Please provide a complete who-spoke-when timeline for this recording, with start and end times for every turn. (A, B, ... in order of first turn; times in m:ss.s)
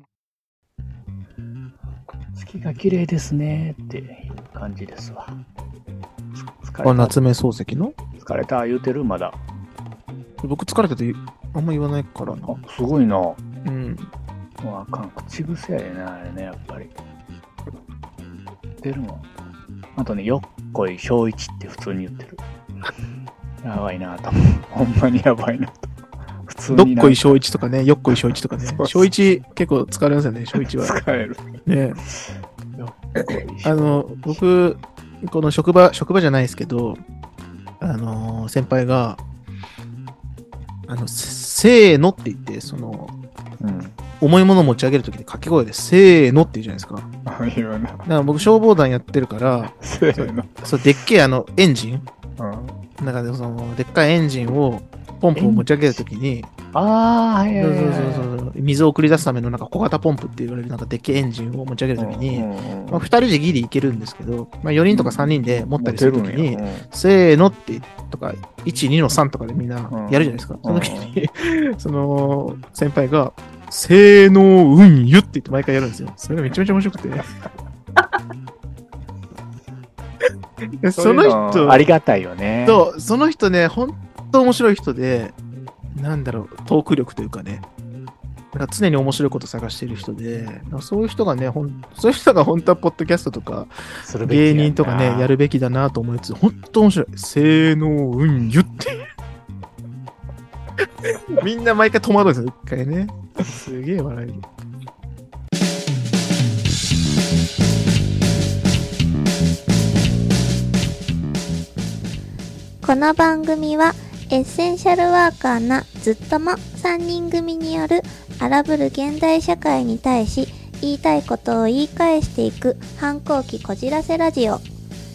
0:02.4-0:05.4 A
0:06.4-0:07.2 A
0:06.8-0:07.9 B
0:08.2-0:09.4 A
0:10.4-0:12.6 B
0:12.5-0:13.4 A
0:13.6-0:14.1 B
0:14.6-0:16.9 A
0:18.8-0:19.2 A
0:20.0-0:22.4 A
0:23.6-0:25.9 A
0:26.5-0:27.4 A
0:26.7-0:31.0 B
0:28.1-0:29.1 A
0:30.5-0:34.4 A
0:31.6-0:32.0 B
0:33.6-0:37.0 B
0:37.8-0:39.2 B
0:40.9-0:43.1 B
0:43.6-0:43.9 A
0:44.2-0:47.1 B
0:47.2-0:48.0 A
0:48.0-0:52.0 B
0:49.7-0:50.6 A
0:52.4-0:52.8 A
0:53.0-0:56.5 B
0:55.4-0:56.0 A
0:56.7-0:58.3 A
0:57.5-1:17.2 B
1:02.0-1:03.1 A
1:04.9-1:06.9 A
1:09.9-1:11.2 A
1:20.8-1:21.8 B
1:21.0-1:22.8 A
1:22.6-1:25.3 B
1:25.9-1:27.6 B
1:28.5-1:33.7 B
1:34.0-1:35.3 A
1:34.2-1:39.1 B
1:41.0-1:44.4 B
1:52.8-2:04.6 C